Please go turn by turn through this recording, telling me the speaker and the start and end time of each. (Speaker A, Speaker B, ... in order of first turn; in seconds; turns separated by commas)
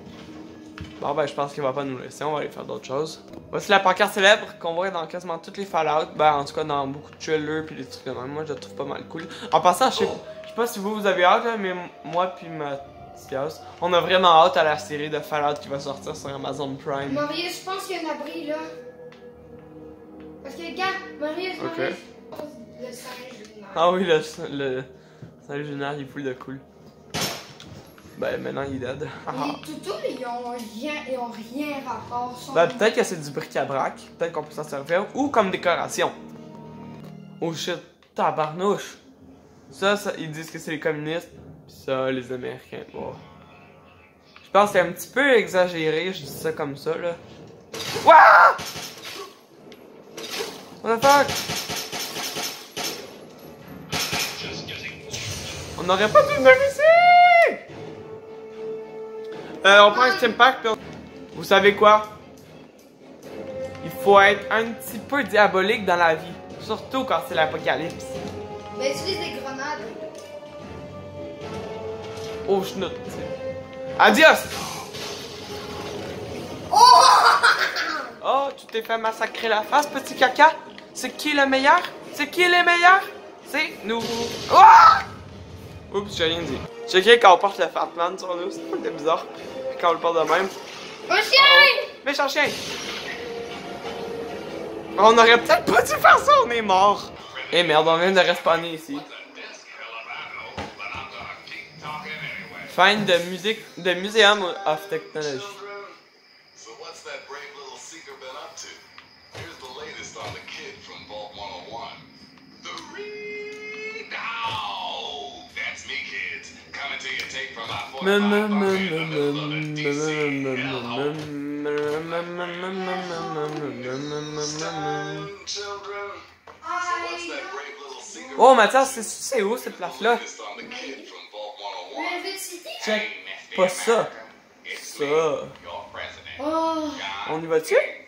Speaker A: 1.0-17.3, Speaker B: 17.1-18.7, Speaker B: 20.4-23.9, Speaker A: 21.6-22.0, Speaker A: 23.7-24.9, Speaker A: 25.4-26.6, Speaker A: 28.2-29.6, Speaker B: 29.3-32.9, Speaker A: 32.5-36.1, Speaker A: 37.4-39.0, Speaker A: 39.7-43.2, Speaker A: 44.4-47.2, Speaker A: 48.0-48.6, Speaker A: 50.8-51.3, Speaker A: 55.8-57.6, Speaker A: 59.6-60.8, Speaker B: 59.6-60.4, Speaker A: 61.3-62.1, Speaker A: 63.8-68.2, Speaker B: 68.8-70.0, Speaker A: 72.5-73.3, Speaker A: 74.0-74.6, Speaker B: 76.7-78.2, Speaker A: 78.2-85.1, Speaker A: 85.9-90.5, Speaker B: 91.1-91.9, Speaker A: 91.3-92.6, Speaker A: 95.0-99.1, Speaker C: 97.4-102.7, Speaker A: 102.7-105.6, Speaker C: 105.3-106.0, Speaker C: 106.5-112.1, Speaker C: 112.6-121.1, Speaker A: 118.0-125.3, Speaker C: 122.2-123.0, Speaker B: 123.0-123.6, Speaker C: 124.0-126.2, Speaker B: 126.6-128.3, Speaker C: 126.8-129.1, Speaker A: 128.4-130.2, Speaker C: 129.6-132.2, Speaker B: 130.6-131.1, Speaker B: 131.9-133.0, Speaker A: 132.8-134.1, Speaker C: 132.9-136.4, Speaker A: 134.7-135.6, Speaker B: 136.4-137.1, Speaker C: 137.0-137.3, Speaker A: 137.2-137.9